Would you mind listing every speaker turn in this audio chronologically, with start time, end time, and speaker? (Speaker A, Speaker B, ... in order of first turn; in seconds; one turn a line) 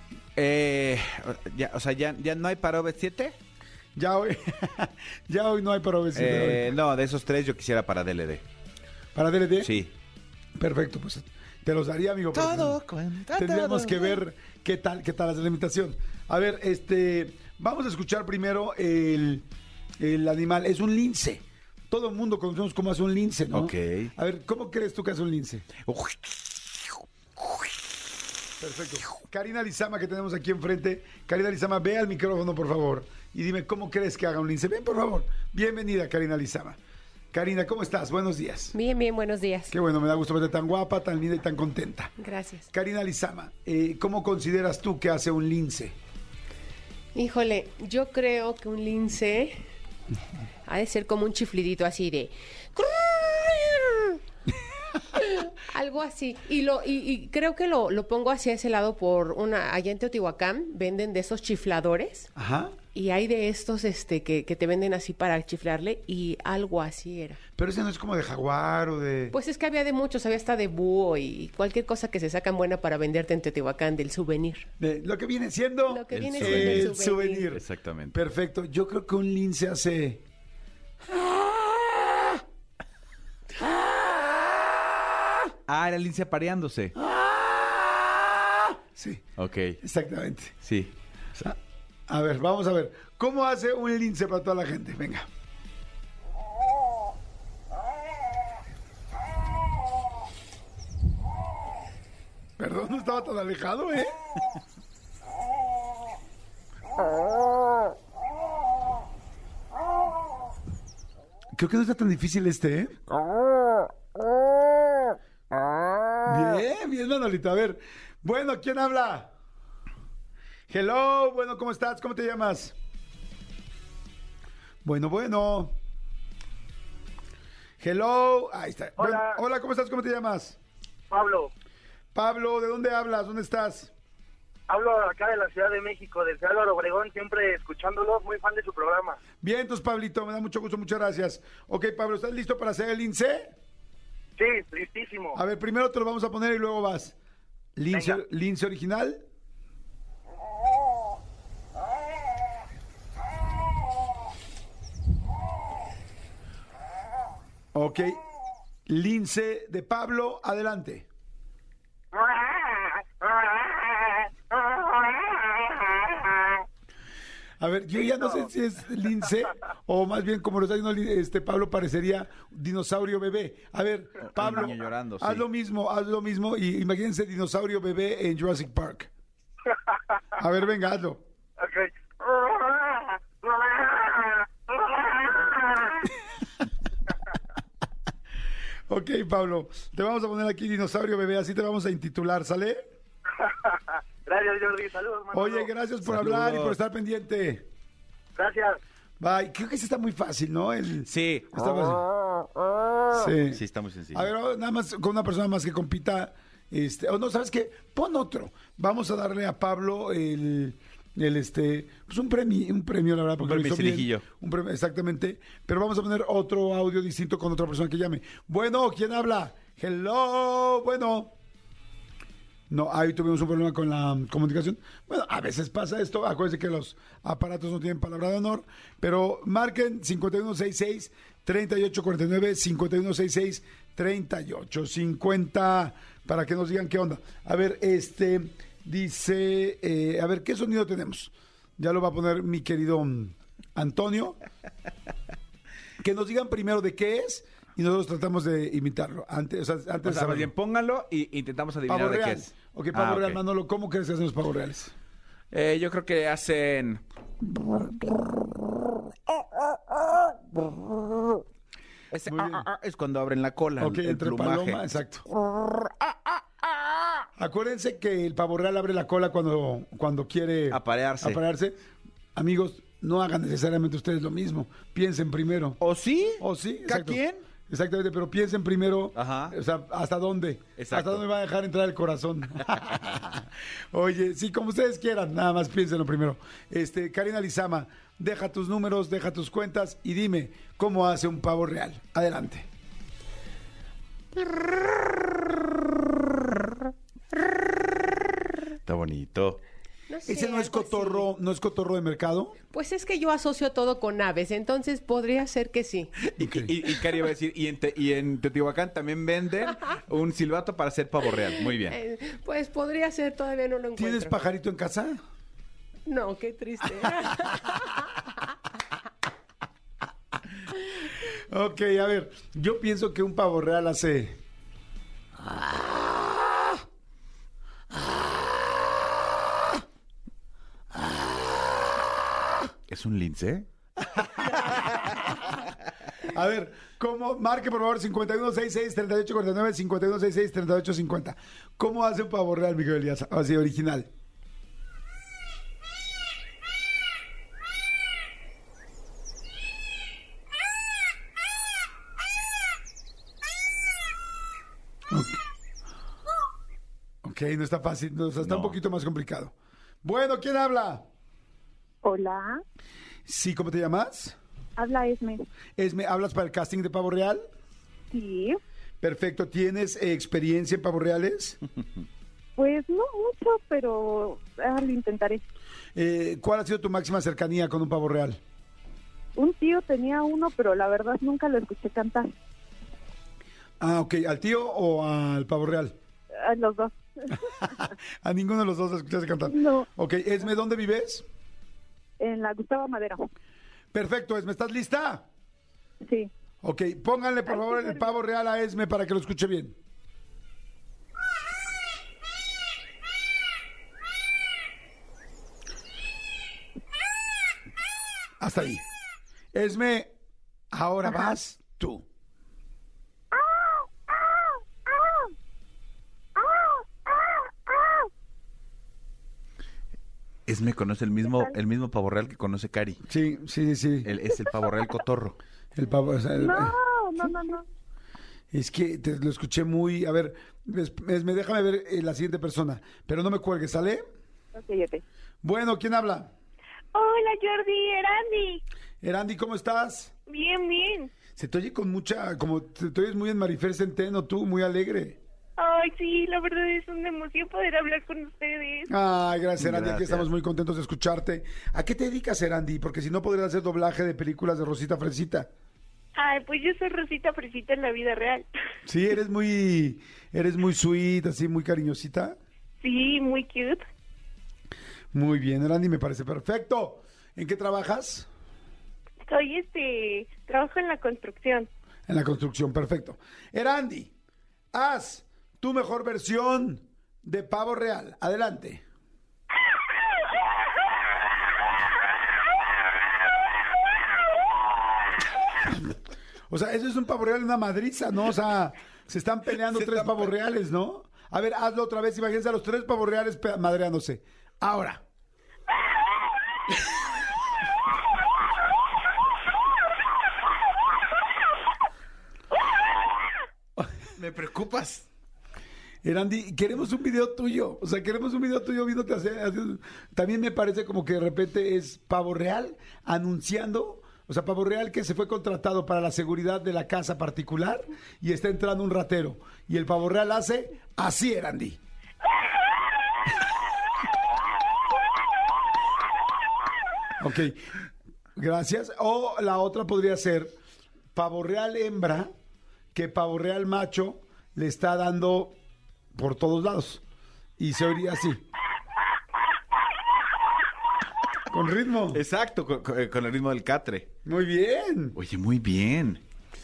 Speaker A: 0.3-3.4
Speaker B: 4.0-6.8
Speaker A: 6.1-8.4
Speaker B: 9.1-9.8
Speaker A: 9.6-9.9
Speaker B: 10.6-12.8
Speaker A: 12.3-14.2
Speaker B: 13.3-19.4
Speaker B: 20.0-25.7
Speaker A: 23.5-24.1
Speaker A: 25.8-26.9
Speaker B: 28.6-36.8
Speaker B: 37.3-38.8
Speaker C: 38.7-39.8
Speaker B: 39.7-42.1
Speaker C: 42.2-42.7
Speaker B: 42.7-46.0
Speaker C: 47.1-49.6
Speaker C: 50.7-54.2
Speaker C: 55.1-62.3
Speaker B: 62.3-62.8
Speaker C: 62.9-67.4
Speaker B: 67.6-69.3
Speaker C: 69.3-74.7
Speaker B: 74.8-80.2
Speaker C: 75.9-77.5
Speaker A: 76.1-76.9
Speaker A: 77.5-78.2
Speaker B: 81.1-82.4
Speaker B: 83.6-85.4
Speaker A: 85.7-87.0
Speaker B: 87.0-89.2
Speaker A: 89.4-89.8
Speaker B: 89.8-90.5
Speaker A: 90.6-90.9
Speaker B: 92.1-95.3
Speaker B: 102.6-104.1
Speaker B: 111.5-112.9
Speaker B: 116.2-119.3
Speaker B: 120.7-122.7
Speaker B: 124.8-125.7
Speaker B: 127.8-130.6
Speaker D: 129.0-129.4
Speaker D: 131.1-131.5
Speaker B: 132.1-133.9
Speaker D: 134.7-139.2
Speaker B: 139.4-143.5
Speaker D: 144.4-145.4
Speaker B: 145.3-147.1
Speaker B: 147.8-149.2
Speaker D: 147.9-148.2
Speaker B: 157.7-158.2
Speaker B: 158.9-161.1
Speaker B: 167.6-179.1
Speaker A: 174.2-175.4
Speaker B: 180.4-181.2
Speaker D: 181.6-184.4
Speaker D: 185.0-185.8
Speaker B: 188.9-192.8
Speaker D: 193.6-195.7
Speaker B: 195.3-197.7
Speaker A: 196.0-196.8
Speaker D: 198.3-198.8
Speaker B: 199.2-202.0
Speaker A: 201.1-201.6
Speaker B: 203.1-221.3
Speaker A: 203.5-204.3
Speaker A: 213.4-214.2
Speaker B: 222.7-244.4
Speaker B: 246.0-250.5
Speaker A: 250.0-253.4
Speaker B: 251.9-254.9
Speaker A: 255.5-257.0
Speaker A: 262.1-264.9
Speaker B: 262.2-262.6
Speaker B: 263.8-265.2
Speaker A: 265.8-266.9
Speaker B: 267.4-271.8
Speaker A: 270.7-271.4
Speaker B: 272.3-275.8
Speaker A: 275.8-277.5
Speaker B: 276.4-292.6
Speaker A: 279.1-279.5
Speaker A: 280.8-281.2
Speaker A: 298.8-299.6
Speaker C: 300.1-301.3
Speaker B: 300.2-302.6
Speaker C: 302.7-306.1
Speaker A: 306.2-311.9
Speaker B: 306.4-306.7
Speaker C: 311.5-314.4
Speaker B: 313.9-315.2
Speaker C: 316.1-318.0
Speaker B: 321.5-324.4
Speaker B: 325.5-326.8
Speaker B: 328.0-328.6
Speaker B: 330.9-331.9
Speaker A: 332.9-333.7
Speaker B: 334.0-335.5
Speaker B: 336.2-344.1
Speaker B: 355.1-355.4
Speaker B: 357.2-361.0
Speaker A: 358.4-358.8
Speaker E: 362.0-362.6
Speaker B: 363.2-364.4
Speaker E: 364.8-365.4
Speaker B: 365.8-367.4
Speaker E: 368.1-368.6
Speaker B: 369.0-371.6
Speaker E: 372.6-375.4
Speaker B: 375.9-378.4
Speaker E: 379.4-382.3
Speaker B: 383.8-385.9
Speaker E: 386.3-387.7
Speaker B: 387.4-391.2
Speaker E: 389.5-389.9
Speaker E: 392.2-393.3
Speaker B: 393.9-395.3
Speaker E: 396.0-396.3
Speaker B: 396.6-399.8
Speaker E: 397.5-397.9
Speaker B: 408.4-408.8
Speaker B: 409.5-410.1
Speaker B: 410.7-412.1
Speaker E: 413.4-415.3
Speaker E: 416.4-418.1
Speaker A: 420.5-423.0
Speaker E: 421.3-421.5
Speaker B: 423.1-424.1
Speaker A: 424.0-425.4
Speaker B: 425.8-426.8
Speaker E: 426.4-427.6
Speaker B: 428.5-434.1
Speaker E: 434.5-435.0
Speaker B: 435.4-436.3
Speaker F: 436.9-438.6
Speaker B: 439.0-440.1
Speaker F: 440.3-441.1
Speaker B: 441.4-445.2
Speaker F: 445.6-448.9
Speaker B: 448.9-455.5
Speaker A: 449.6-450.3
Speaker F: 456.1-458.5
Speaker B: 458.9-462.4
Speaker F: 462.8-463.8
Speaker B: 465.1-468.3
Speaker F: 469.3-471.7
Speaker B: 472.1-474.1
Speaker B: 474.7-478.8
Speaker B: 486.5-495.0
Speaker A: 489.7-490.2
Speaker A: 504.1-505.1
Speaker B: 506.0-521.8
Speaker B: 527.2-527.7
Speaker B: 528.4-530.6
Speaker B: 531.1-532.3
Speaker B: 532.9-535.5
Speaker B: 536.1-537.0
Speaker B: 537.6-538.4
Speaker B: 541.5-542.2
Speaker A: 542.1-544.1
Speaker B: 544.2-545.2
Speaker A: 545.1-546.2